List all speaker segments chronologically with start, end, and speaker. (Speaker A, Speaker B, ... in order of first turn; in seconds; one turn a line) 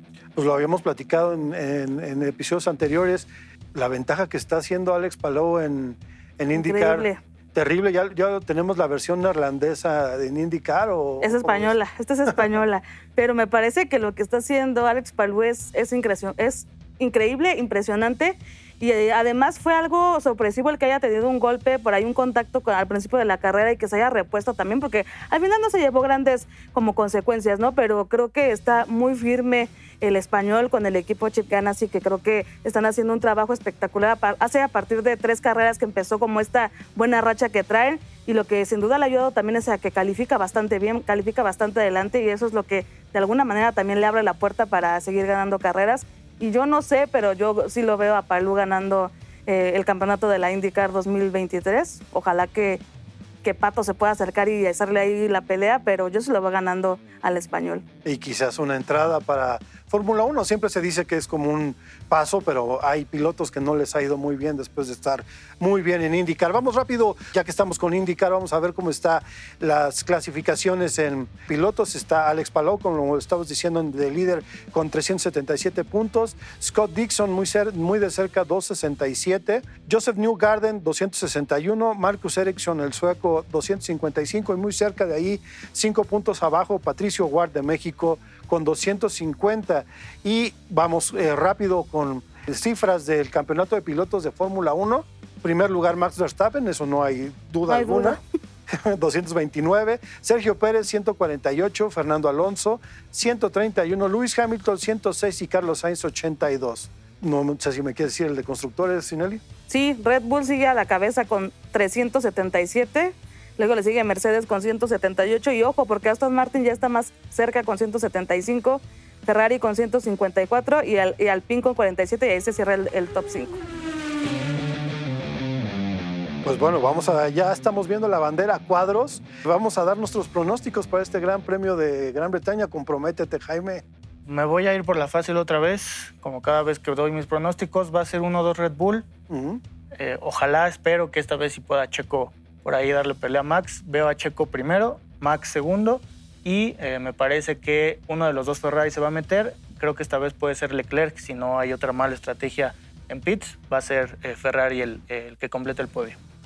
Speaker A: 0.4-11.8
Speaker B: 6.5-7.2
Speaker B: 11.2-52.8
Speaker B: 53.4-57.8
Speaker A: 58.0-109.4
Speaker B: 97.7-98.2
Speaker B: 109.7-123.6
Speaker A: 126.4-133.8
Speaker C: 134.3-139.1
Speaker A: 139.3-139.6
Speaker C: 140.0-156.2